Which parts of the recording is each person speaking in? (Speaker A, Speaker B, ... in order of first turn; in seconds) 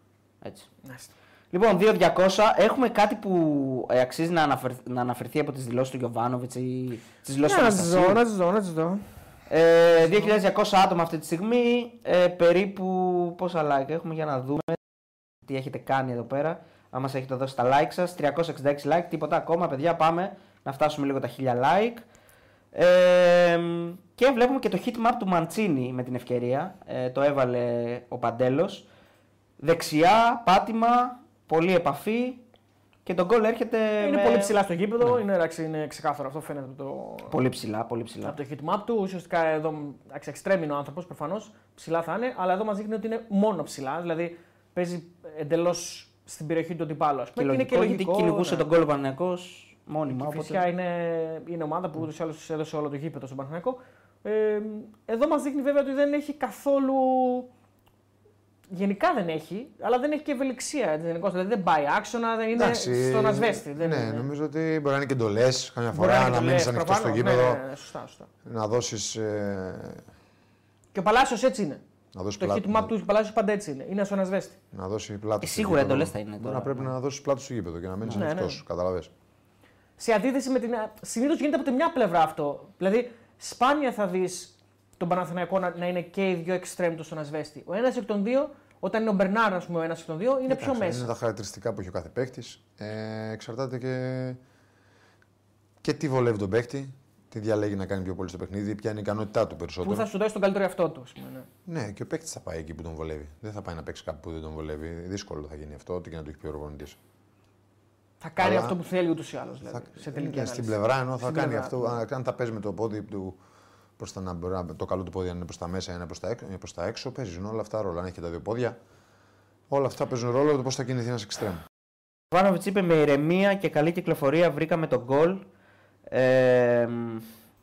Speaker A: 0.4-0.7, 1.5-8.2, 9.5-14.8, 15.4-22.0, 22.7-28.9, 29.6-32.4, 33.0-35.2, 37.3-38.4, 47.4-50.6, 75.4-76.9, 122.3-125.4, 126.1-127.2
Speaker B: 0.8-1.1, 7.4-9.0, 34.0-37.4, 38.2-48.7, 50.1-57.5, 58.7-64.3, 65.9-68.3, 70.9-71.8, 72.4-74.6, 78.1-78.6, 80.0-91.1, 99.8-101.5, 108.2-112.0
Speaker C: 62.5-67.6, 68.4-70.0, 72.1-72.9, 74.7-79.1, 90.5-94.4, 95.8-100.1, 101.7-107.0, 108.4-108.8, 109.7-113.4, 114.0-118.8, 119.7-121.6